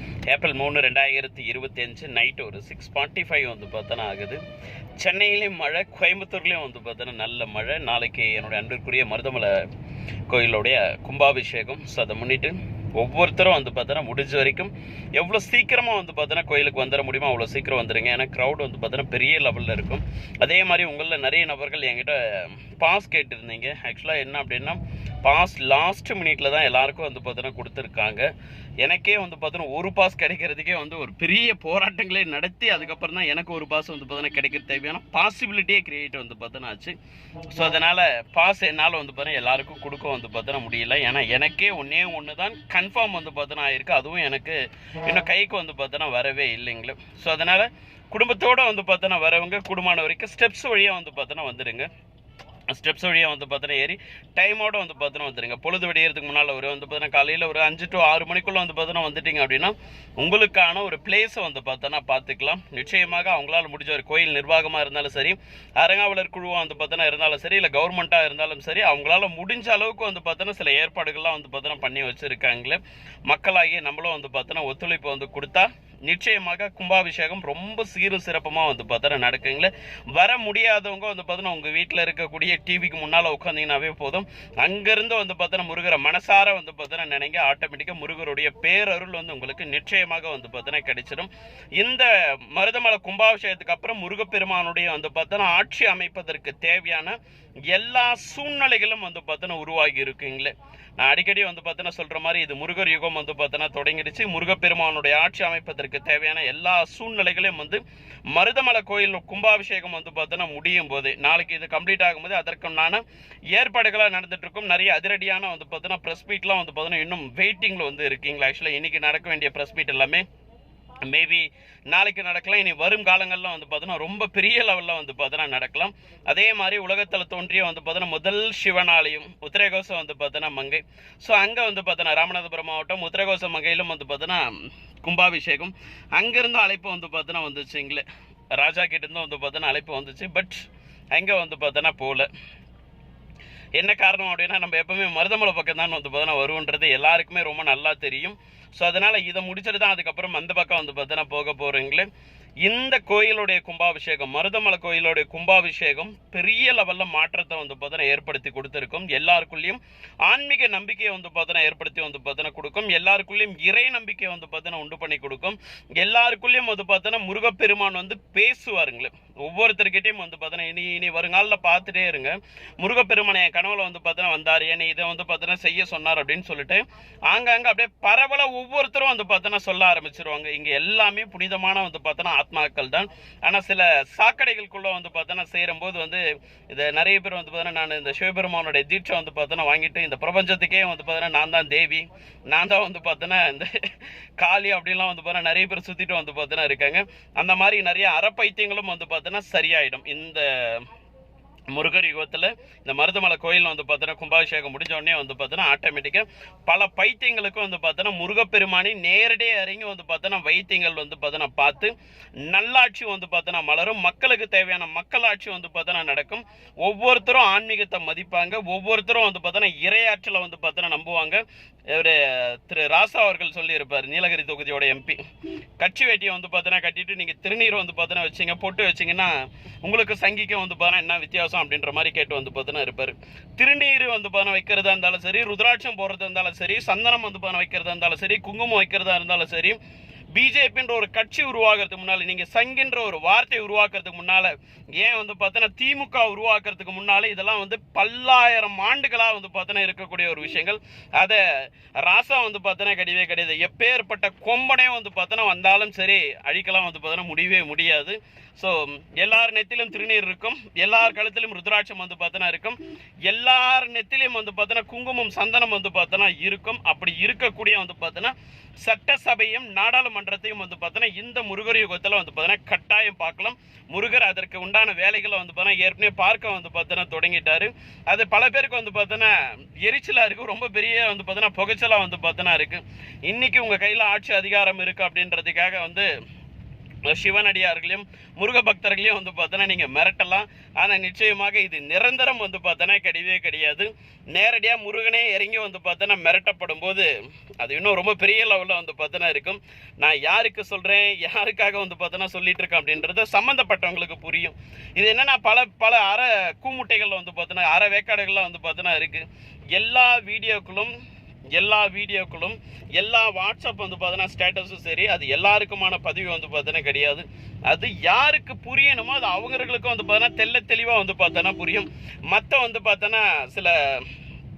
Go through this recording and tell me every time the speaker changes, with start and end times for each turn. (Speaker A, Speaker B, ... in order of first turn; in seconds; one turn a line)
Speaker A: 0.3-4.4
Speaker A: 5.0-9.7
Speaker A: 10.3-28.3
Speaker A: 28.8-37.0
Speaker A: 37.5-51.9
Speaker A: 52.7-97.2
Speaker A: 97.7-120.2
Speaker A: 121.0-142.3
Speaker A: 143.8-152.1
Speaker A: 152.6-200.9
Speaker A: 201.7-211.9
Speaker A: 212.5-225.2
Speaker A: 225.8-239.8
Speaker A: 240.3-286.1
Speaker A: 287.1-310.9
Speaker A: 311.5-324.1